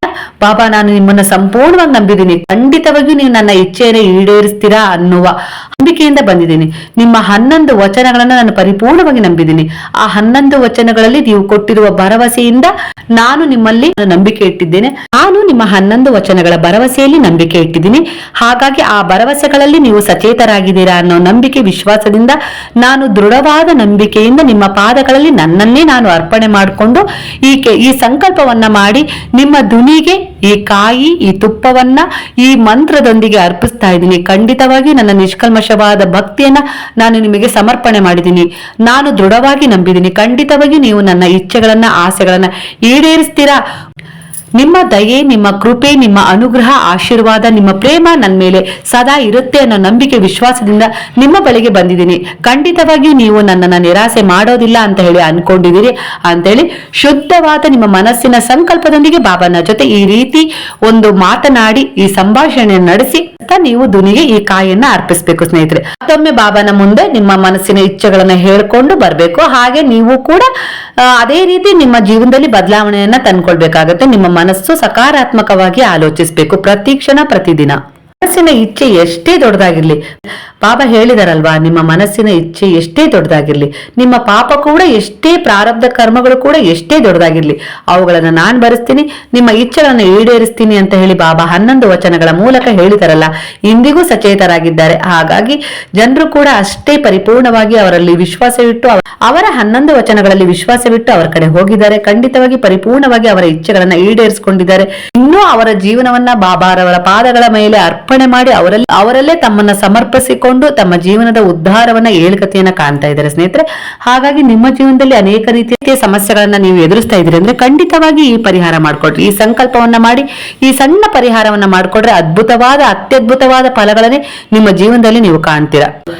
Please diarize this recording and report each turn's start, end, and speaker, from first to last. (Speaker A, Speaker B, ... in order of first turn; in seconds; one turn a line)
Speaker A: 0.4-43.6
Speaker A: 44.6-70.5
Speaker A: 71.0-80.0
Speaker A: 80.6-125.9